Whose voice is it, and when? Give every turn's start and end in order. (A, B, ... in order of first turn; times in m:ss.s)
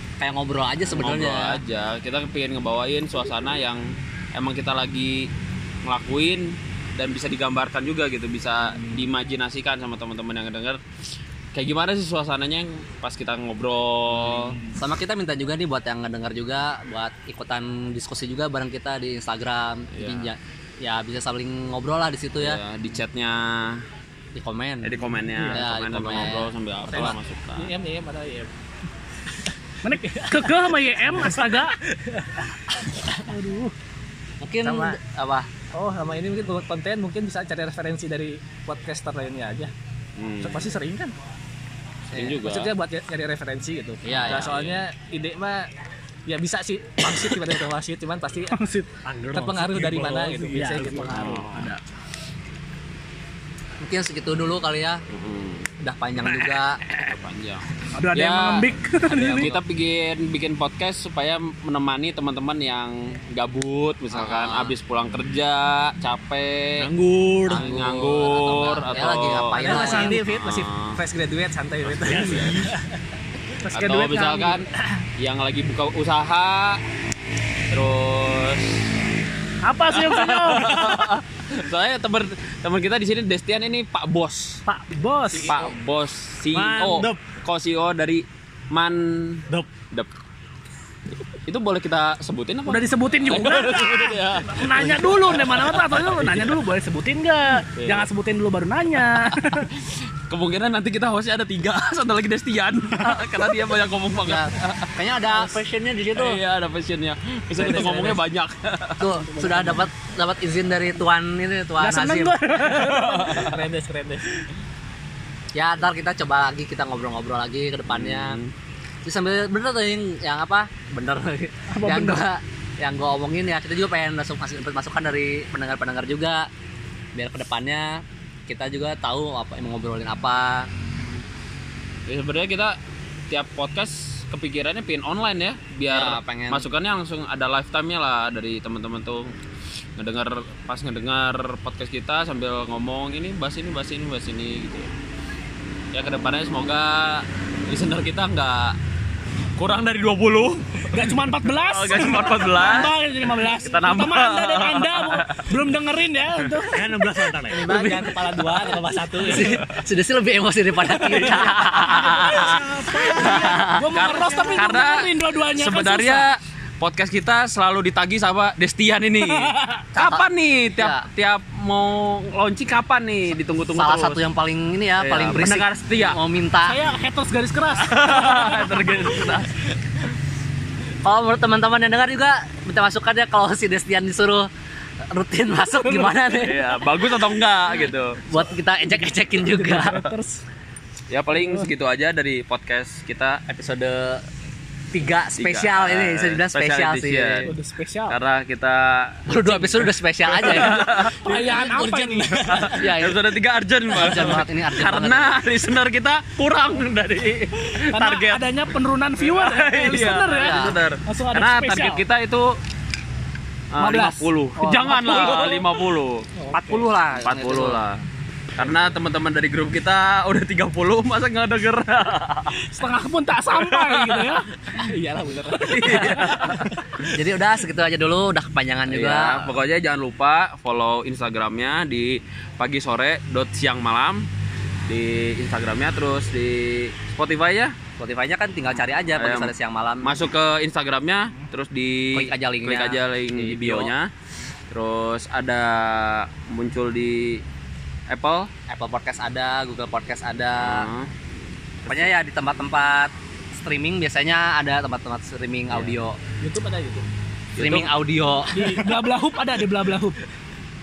0:00.2-0:01.6 A
0:00.8-0:03.8 B
0:04.3-0:05.3 B
0:05.8-0:10.8 B
0:11.5-0:14.6 B
0:14.2-0:14.7 C
0:14.7-0:22.6 A
0:19.9-0:20.3 B
0:22.4-0:23.8 B
0:24.4-0:27.1 A
0:24.8-0:27.7 B
0:26.9-0:28.5 C
0:29.8-0:31.8 D
0:29.9-0:33.2 C
0:33.2-0:33.7 D
0:34.4-0:35.5 A
0:34.6-0:35.0 C
0:35.7-0:39.7 C
0:40.2-0:40.7 B
0:40.4-0:41.1 C
0:42.1-0:42.4 A
0:42.1-0:42.7 B
0:42.4-0:45.7 C
0:44.0-0:44.5 A
0:44.1-0:44.8 B
0:46.3-0:48.6 C
0:48.5-0:48.9 D
0:49.0-0:51.7 E
0:49.3-0:51.7 C
0:50.5-0:51.8 D
0:51.1-0:51.7 B
0:53.8-0:55.0 A
0:55.1-0:55.7 B
0:55.8-0:56.8 A
0:56.9-0:58.6 B
0:57.9-0:59.5 D
0:59.0-0:59.6 A
0:59.2-1:06.9 B
1:04.1-1:04.7 A
1:06.8-1:07.6 E
1:07.5-1:10.2 A
1:07.5-1:11.0 B
1:09.5-1:12.8 C
1:11.8-1:12.6 B
1:12.0-1:12.8 E
1:13.6-1:14.6 D
1:13.7-1:14.6 B
1:15.2-1:16.8 B
1:17.7-1:18.8 B
1:19.6-1:20.9 D
1:19.9-1:24.6 B
1:24.6-1:25.5 D
1:25.3-1:25.7 C
1:25.4-1:30.1 B
1:26.5-1:27.2 E
1:31.4-1:36.6 B
1:32.6-1:39.7 D
1:37.7-1:38.1 B
1:39.8-1:45.5 B
1:44.2-1:46.4 A
1:46.1-1:49.1 B
1:47.6-1:48.2 C
1:49.0-1:52.4 A
1:49.4-1:49.7 C
1:51.8-1:53.4 D
1:52.6-1:53.6 B
1:52.9-1:54.2 C
1:55.5-1:58.4 A
1:57.9-1:58.5 B
1:59.0-2:06.5 A
2:01.7-2:02.2 D
2:07.1-2:10.7 A
2:12.1-2:12.7 B
2:13.3-2:19.3 B
2:15.9-2:16.7 A
2:20.0-2:24.9 B
2:25.9-2:28.8 B
2:29.6-2:32.9 B
2:30.9-2:37.4 D
2:33.4-2:35.4 B
2:36.7-2:37.8 E
2:37.5-2:39.6 C
2:37.5-2:38.1 A
2:39.2-2:42.6 A
2:41.8-2:44.6 E
2:42.9-2:46.3 D
2:43.3-2:43.7 A
2:43.9-2:54.2 B
2:49.2-2:49.8 D
2:50.0-2:50.2 A
2:50.8-2:51.0 A
2:53.7-2:56.8 A
2:55.0-2:56.2 B
2:56.6-2:59.4 D
2:57.8-2:59.5 B
3:01.0-3:04.5 A
3:05.1-3:06.7 A
3:06.2-3:08.2 B
3:08.3-3:10.0 A
3:09.4-3:10.4 D
3:09.8-3:10.1 B
3:11.1-3:14.2 B
3:11.3-3:11.7 D
3:14.9-3:17.5 A
3:15.4-3:17.5 B
3:17.4-3:18.2 D
3:18.1-3:21.6 B
3:19.3-3:23.2 A
3:20.7-3:22.7 D
3:22.2-3:28.4 B
3:23.9-3:25.3 A
3:27.9-3:32.0 D
3:29.2-3:32.5 B
3:30.3-3:30.8 A
3:33.7-3:36.2 B
3:33.8-3:35.7 D
3:35.1-3:35.4 A
3:36.4-3:36.7 C
3:36.5-3:37.8 A
3:36.8-3:38.0 B
3:38.6-3:42.5 B
3:42.6-3:44.5 D
3:43.5-3:44.3 B
3:44.7-3:46.2 C
3:45.6-3:47.1 B
3:45.8-3:46.2 D
3:45.9-3:46.3 A
3:47.1-3:49.5 A
3:48.9-3:54.2 B
3:54.9-3:57.7 B
3:58.0-4:00.2 A
3:59.1-3:59.5 B
4:00.0-4:04.1 B
4:02.1-4:03.9 A
4:04.7-4:07.4 B
4:08.1-4:08.5 B
4:08.7-4:10.9 A
4:10.6-4:11.1 B
4:11.8-4:12.1 B
4:11.9-4:16.2 A
4:15.7-4:15.9 B
4:16.4-4:17.0 C
4:17.6-4:18.7 A
4:17.6-4:17.9 B
4:18.5-4:18.8 C
4:18.5-4:20.2 D